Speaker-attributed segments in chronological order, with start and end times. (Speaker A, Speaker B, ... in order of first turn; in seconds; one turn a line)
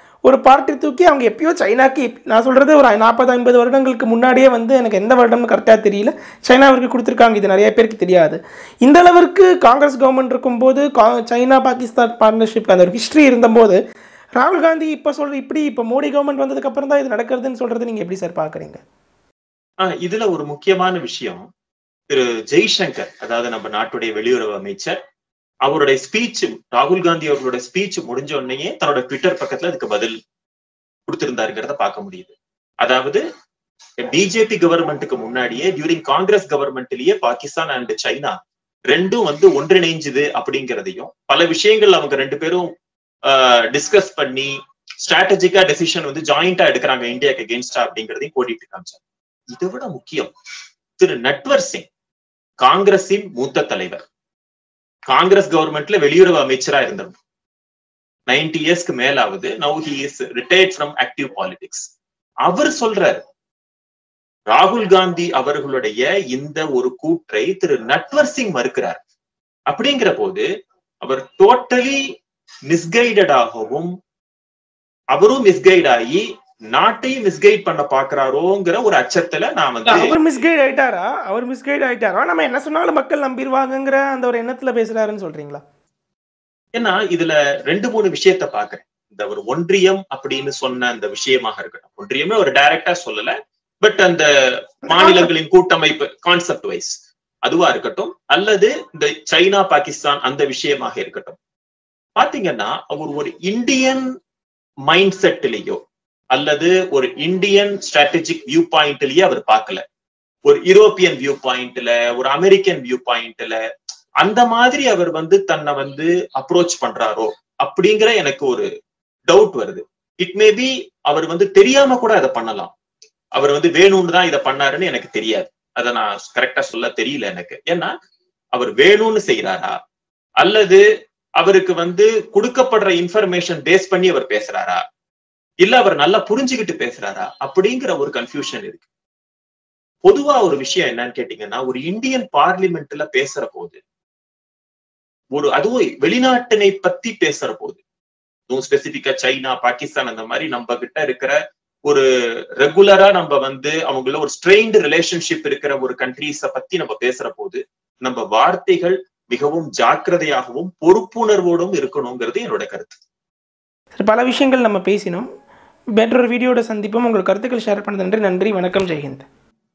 Speaker A: 0.2-13.8
Speaker A: 14.3-18.8
Speaker B: 19.8-21.4
Speaker B: 22.1-24.9
Speaker B: 25.6-30.1
Speaker B: 31.1-33.2
Speaker B: 34.0-38.4
Speaker B: 38.9-42.6
Speaker B: 43.3-44.5
Speaker B: 45.0-49.0
Speaker B: 49.5-50.3
Speaker B: 51.0-51.9
Speaker B: 52.6-54.0
Speaker B: 55.1-57.1
Speaker B: 58.3-61.9
Speaker B: 62.5-63.2
Speaker B: 64.5-69.0
Speaker B: 69.7-70.4
Speaker B: 71.0-72.0
Speaker B: 72.7-73.9
Speaker B: 75.1-80.1
Speaker A: 79.8-85.6
Speaker B: 86.7-96.9
Speaker A: 94.9-95.3
Speaker B: 97.4-101.3
Speaker B: 102.2-104.0
Speaker B: 104.9-105.8
Speaker B: 106.3-109.8
Speaker B: 110.4-113.6
Speaker B: 114.2-118.7
Speaker B: 119.3-122.7
Speaker B: 123.3-127.9
Speaker B: 128.5-129.7
Speaker B: 130.4-130.8
Speaker B: 131.4-134.8
Speaker B: 135.6-138.8
Speaker B: 140.0-143.8
Speaker B: 145.3-147.8
Speaker B: 148.5-151.3
Speaker B: 152.6-163.0
Speaker A: 163.9-165.3
Speaker A: 165.9-169.3